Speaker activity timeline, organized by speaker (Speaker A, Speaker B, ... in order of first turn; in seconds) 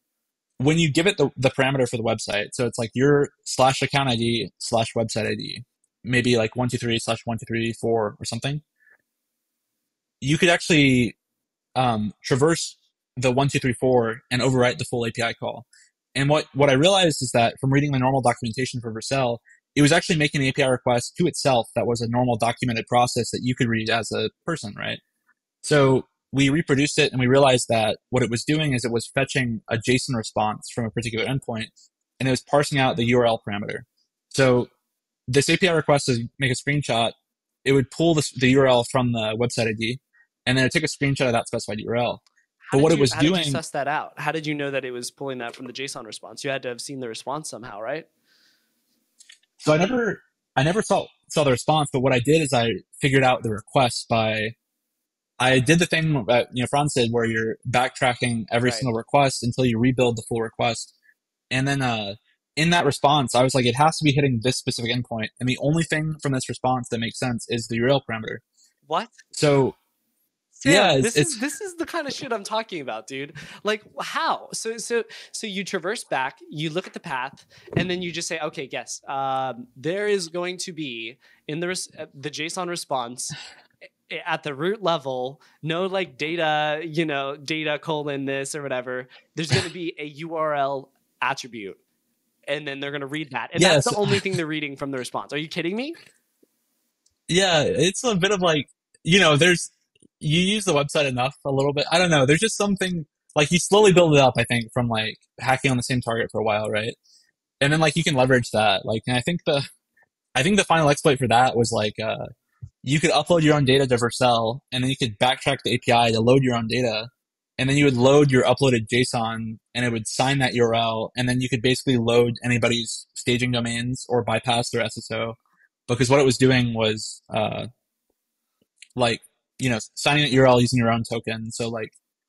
Speaker A: 0.6-8.6, 10.2-11.1, 11.8-25.0, 25.6-34.7, 35.3-37.1, 37.6-42.2, 42.7-43.6, 49.6-54.5, 55.4-60.9, 61.5-68.4, 69.3-69.8, 70.6-71.4, 93.6-94.2, 97.3-106.9, 107.6-109.7, 110.3-112.3, 112.8-125.3, 125.9-127.7, 128.9-131.9
Speaker B: 42.6-48.1, 58.6-58.9, 68.9-69.2, 70.6-83.3, 84.1-91.8, 92.5-96.0